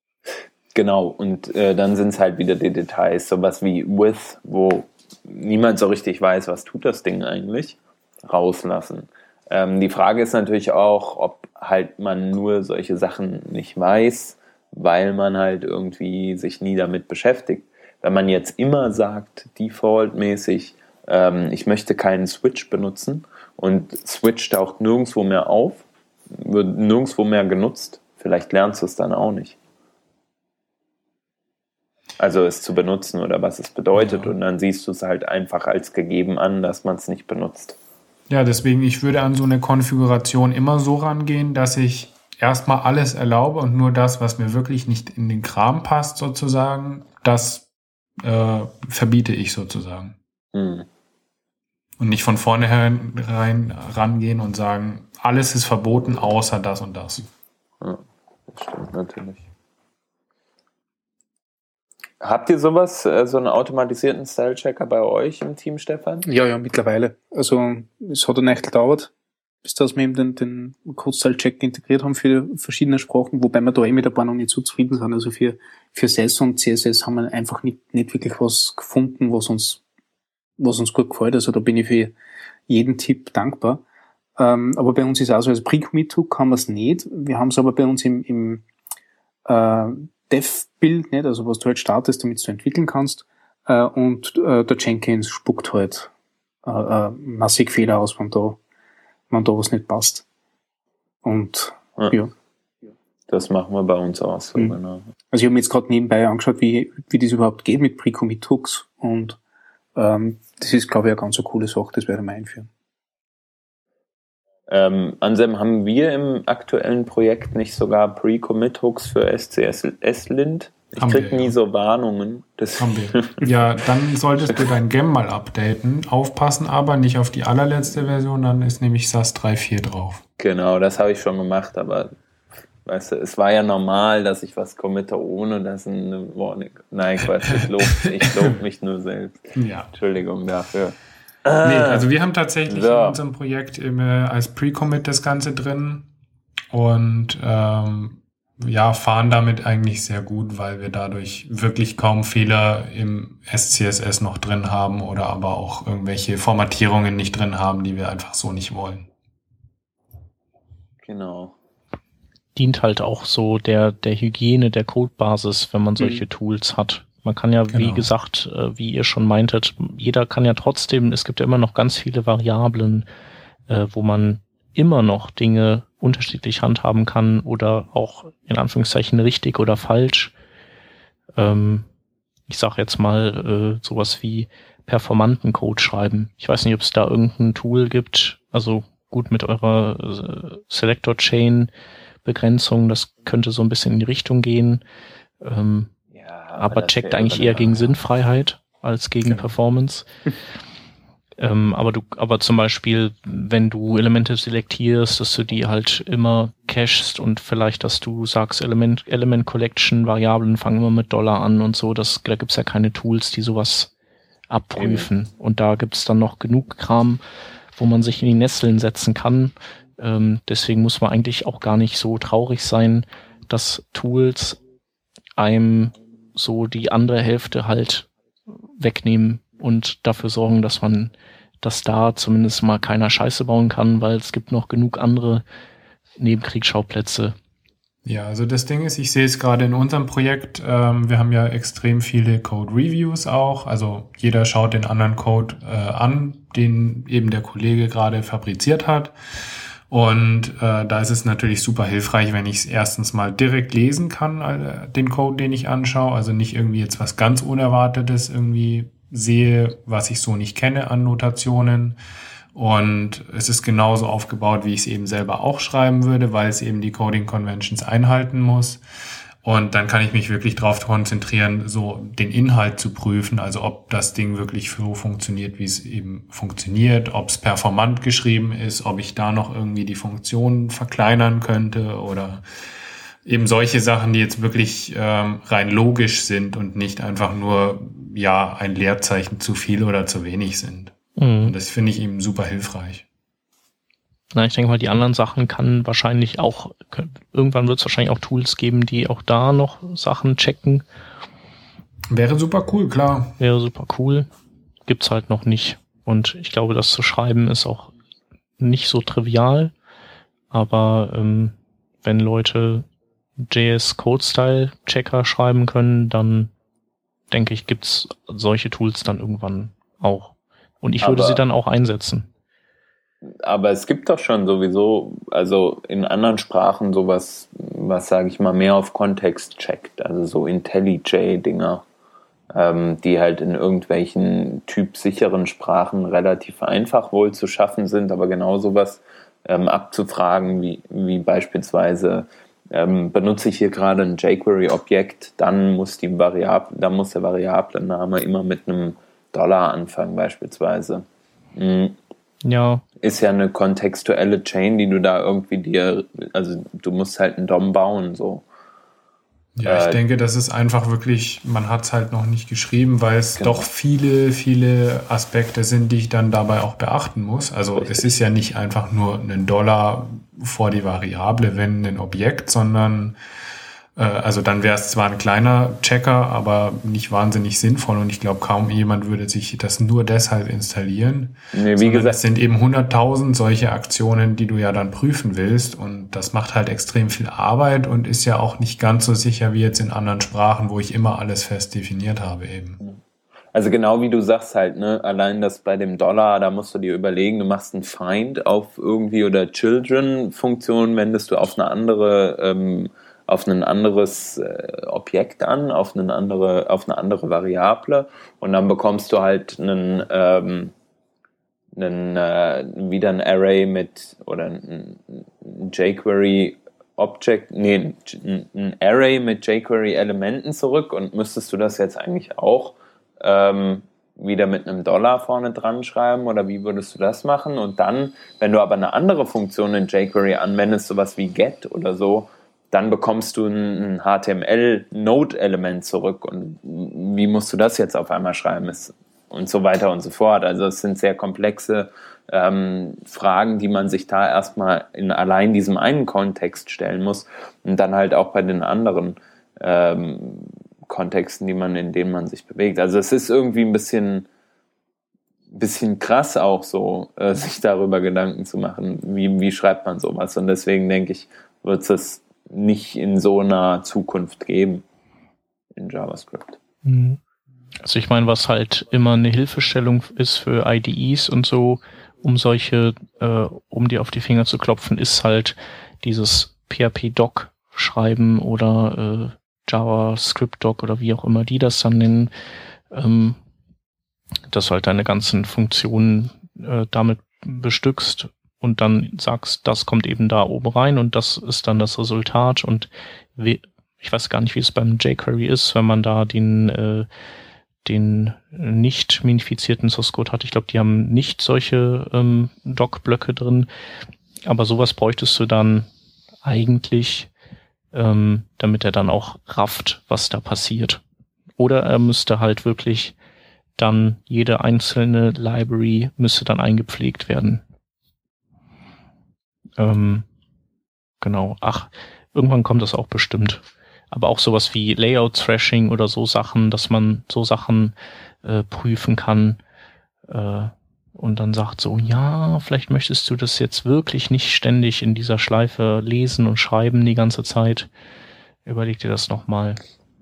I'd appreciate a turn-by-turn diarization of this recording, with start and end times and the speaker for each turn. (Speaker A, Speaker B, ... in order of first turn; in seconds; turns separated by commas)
Speaker A: 0.3-29.6, Speaker A: 32.2-37.8, Speaker B: 34.0-34.3, Speaker B: 38.3-47.7, Speaker B: 48.2-50.1, Speaker A: 50.5-50.9, Speaker B: 52.0-57.2, Speaker A: 57.8-59.4, Speaker A: 62.2-66.2, Speaker C: 66.2-69.1, Speaker C: 69.6-79.8, Speaker C: 80.6-82.1, Speaker C: 82.7-83.8, Speaker C: 84.4-88.6, Speaker C: 89.5-96.1, Speaker C: 96.7-98.6, Speaker C: 99.3-100.2, Speaker C: 101.2-102.3, Speaker A: 103.3-105.1, Speaker C: 105.3-109.4, Speaker C: 110.0-112.7, Speaker A: 114.7-123.4, Speaker B: 121.0-121.5, Speaker B: 122.8-130.2, Speaker A: 130.4-132.1, Speaker A: 132.8-142.1, Speaker B: 137.5-138.1, Speaker B: 139.5-139.9, Speaker B: 141.6-146.1, Speaker A: 142.7-143.2, Speaker B: 146.7-159.1, Speaker A: 161.0-161.6, Speaker D: 162.5-173.1, Speaker B: 167.7-168.1, Speaker D: 173.7-180.3, Speaker D: 181.4-181.8, Speaker D: 182.5-191.7, Speaker D: 192.2-194.8, Speaker D: 195.4-195.9, Speaker A: 196.1-198.0, Speaker D: 196.6-200.0, Speaker D: 201.4-213.9, Speaker D: 214.5-217.2, Speaker A: 214.8-215.1, Speaker D: 217.8-224.6, Speaker D: 225.4-228.1, Speaker D: 228.8-235.4, Speaker D: 236.2-237.3, Speaker B: 238.0-249.2, Speaker B: 249.9-262.0, Speaker B: 262.5-268.8, Speaker B: 269.4-282.4, Speaker B: 283.2-293.0, Speaker D: 291.2-291.5, Speaker D: 294.3-300.8, Speaker B: 302.1-303.4, Speaker D: 303.4-304.3, Speaker D: 304.9-307.9, Speaker D: 308.6-309.7, Speaker D: 310.5-312.9, Speaker D: 313.5-316.5, Speaker D: 317.3-322.3, Speaker A: 321.0-321.4, Speaker A: 323.4-331.8, Speaker A: 332.5-352.0, Speaker D: 352.4-352.8, Speaker A: 353.0-358.4, Speaker B: 359.5-373.2, Speaker A: 359.6-360.0, Speaker A: 363.4-363.7, Speaker A: 367.8-368.1, Speaker B: 373.9-392.8, Speaker A: 381.5-382.2, Speaker A: 393.5-410.7, Speaker A: 411.8-454.3, Speaker A: 455.5-464.8, Speaker A: 465.8-466.6, Speaker D: 466.8-467.2, Speaker D: 467.8-482.3, Speaker D: 482.9-483.4, Speaker D: 484.5-497.1, Speaker D: 497.8-503.7, Speaker D: 504.4-505.9, Speaker D: 506.4-507.3, Speaker D: 507.9-511.0, Speaker D: 511.6-513.1, Speaker D: 513.8-517.6, Speaker D: 519.8-520.2, Speaker D: 521.2-529.6, Speaker D: 530.3-537.9, Speaker D: 538.6-539.8